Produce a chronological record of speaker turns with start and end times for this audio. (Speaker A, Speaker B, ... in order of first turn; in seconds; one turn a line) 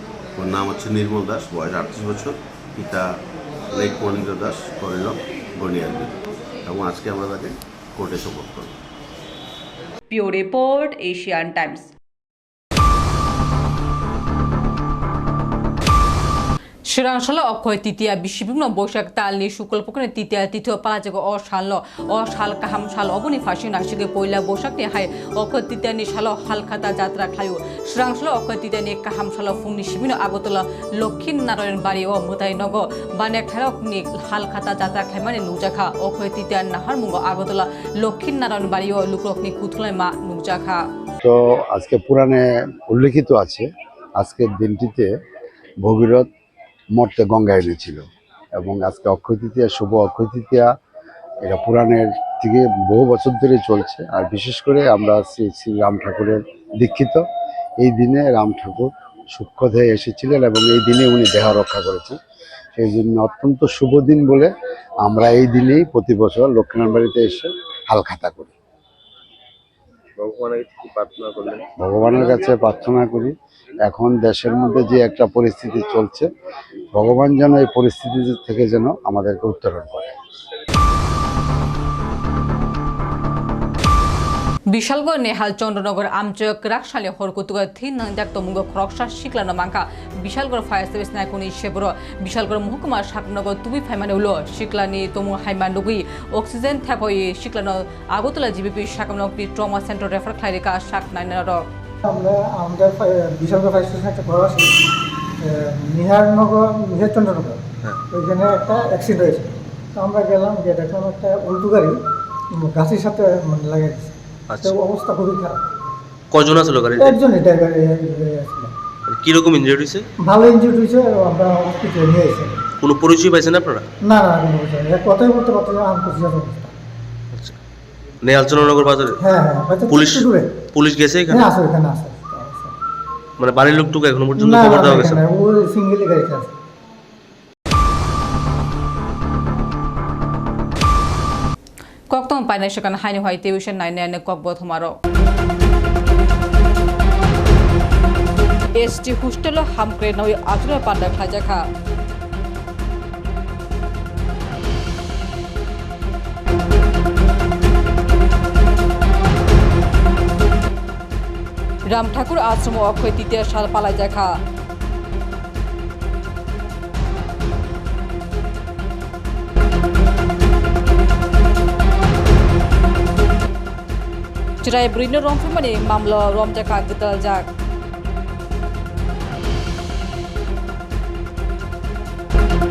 Speaker A: 0.4-3.0
Speaker A: 3.7-8.7
Speaker B: 10.1-11.9
Speaker B: 16.9-40.8
Speaker C: 41.2-43.6
Speaker C: 44.2-45.1
Speaker C: 45.8-46.3
Speaker C: 46.9-48.0
Speaker C: 48.6-50.7
Speaker C: 51.5-57.2
Speaker C: 57.8-62.2
Speaker C: 62.8-64.5
Speaker C: 65.0-68.5
Speaker C: 71.8-73.3
Speaker C: 73.9-76.3
Speaker C: 76.9-80.1
Speaker B: 84.7-101.6
Speaker D: 102.0-104.7
Speaker D: 105.4-112.0
Speaker D: 112.5-115.7
Speaker E: 114.5-114.8
Speaker E: 116.3-117.2
Speaker D: 117.0-118.7
Speaker E: 119.1-120.1
Speaker D: 120.2-122.6
Speaker E: 122.8-123.9
Speaker D: 124.0-126.7
Speaker E: 127.3-127.6
Speaker E: 128.2-129.2
Speaker D: 129.2-130.6
Speaker E: 129.9-131.5
Speaker D: 131.3-132.7
Speaker E: 133.4-135.2
Speaker D: 134.4-136.5
Speaker B: 142.1-144.9
Speaker B: 148.8-151.6
Speaker B: 161.9-164.4
Speaker B: 174.6-177.4